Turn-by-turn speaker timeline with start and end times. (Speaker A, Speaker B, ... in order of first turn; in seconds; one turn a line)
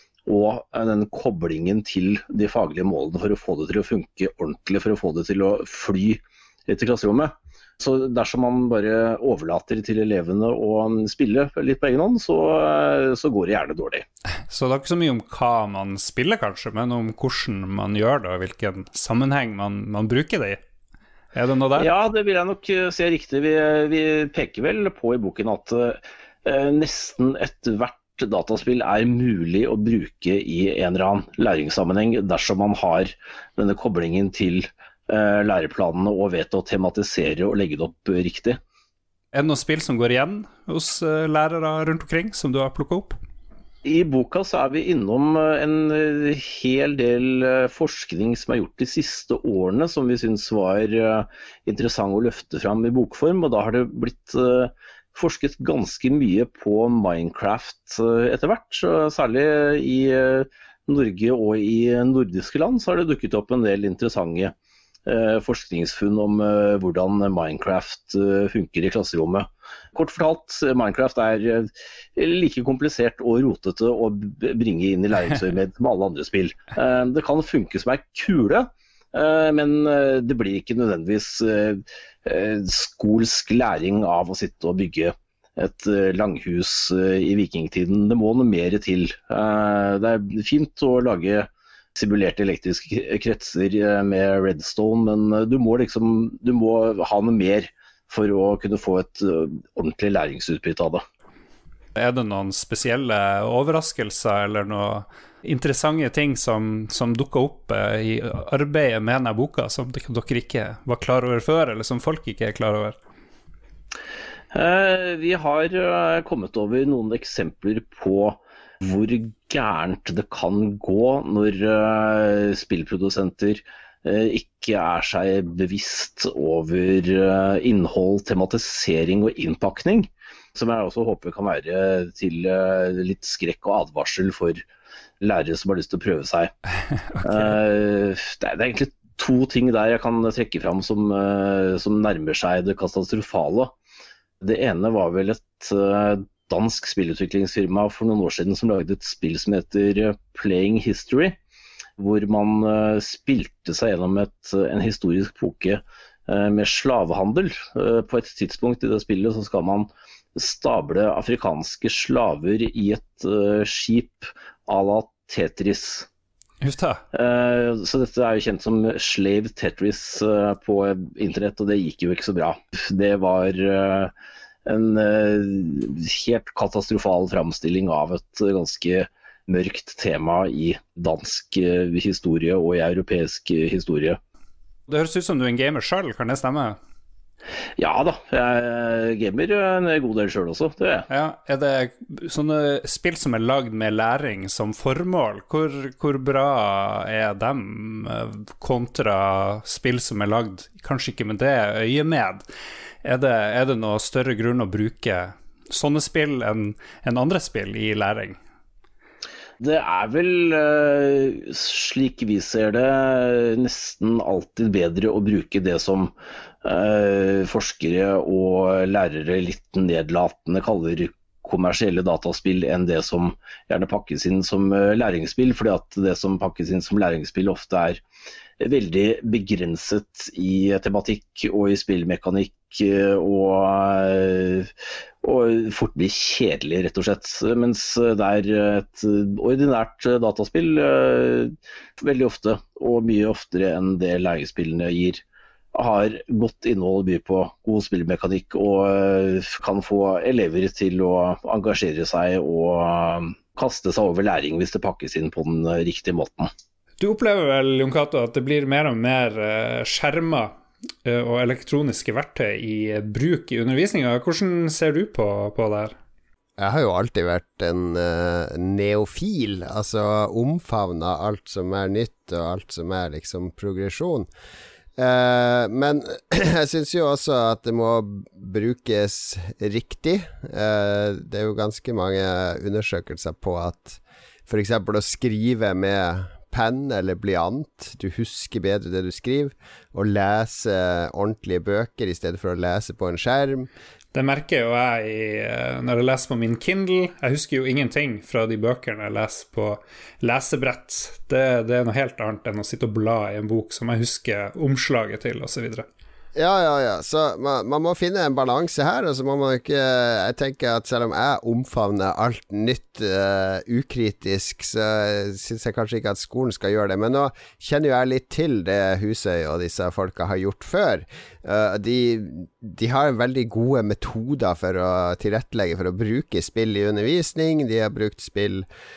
Speaker A: 0.2-14.0
Speaker B: 14.5-20.6
Speaker B: 21.3-21.9
Speaker A: 21.8-38.6
Speaker B: 39.3-43.2
Speaker A: 43.8-64.5
Speaker A: 65.0-101.0
Speaker B: 102.0-113.0
Speaker A: 114.5-134.6
Speaker A: 135.2-136.5
Speaker A: 137.2-143.7
Speaker A: 144.4-151.4
Speaker A: 152.0-166.1
Speaker B: 166.6-167.0
Speaker A: 167.1-174.1
Speaker A: 174.7-184.2
Speaker B: 184.9-186.8
Speaker A: 187.8-191.1
Speaker B: 191.1-202.4
Speaker B: 203.0-208.4
Speaker A: 209.6-216.1
Speaker A: 216.6-228.0
Speaker A: 228.6-234.7
Speaker A: 235.2-245.2
Speaker A: 245.7-256.5
Speaker B: 257.0-265.9
Speaker C: 266.6-274.3
Speaker C: 275.0-293.7
Speaker B: 294.1-305.9
Speaker C: 306.3-328.7